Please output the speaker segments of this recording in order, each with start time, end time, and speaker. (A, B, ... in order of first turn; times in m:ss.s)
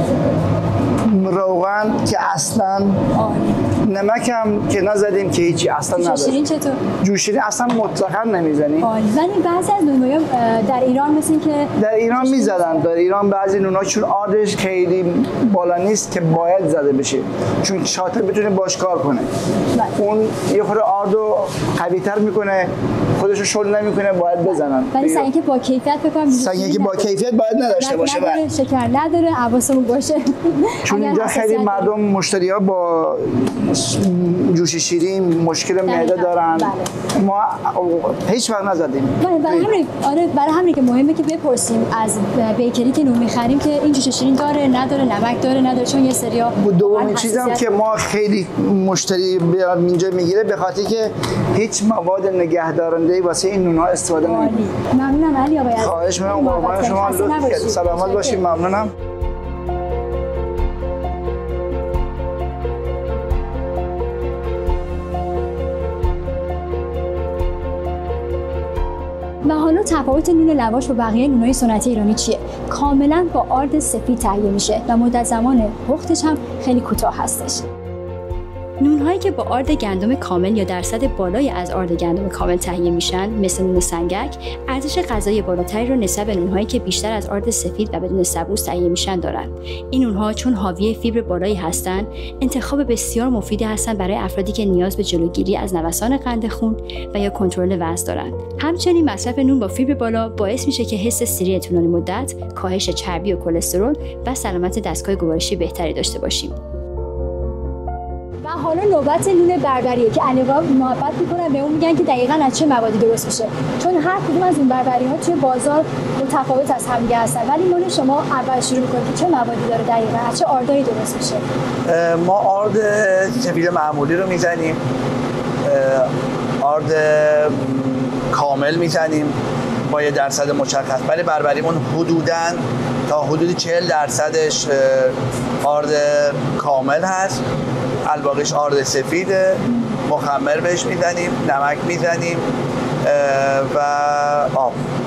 0:01.0-0:03.0 A
0:03.2-0:03.6 B
0:03.8-0:06.4 A
0:05.9-0:06.8 B
0:07.0-0:08.9 A
0:08.8-0:12.8 B
0:11.8-0:19.3 A
0:19.9-0:25.3 A
0:24.9-0:27.1 B
0:26.3-0:28.4 A
0:27.7-0:31.9 B
0:30.8-0:39.7 A
0:35.9-0:36.9 B
0:39.2-0:47.7 B
0:46.6-0:54.6 A
0:54.2-0:58.4 B
0:55.8-0:58.9 A
1:09.4-1:17.6 B
1:18.8-1:46.5 C
1:48.4-2:01.4 B
2:01.9-2:04.8 D
2:05.6-2:06.1 D
2:06.6-2:09.3 D
2:09.8-2:17.4 D
2:18.0-2:22.4 D
2:23.0-2:24.8 D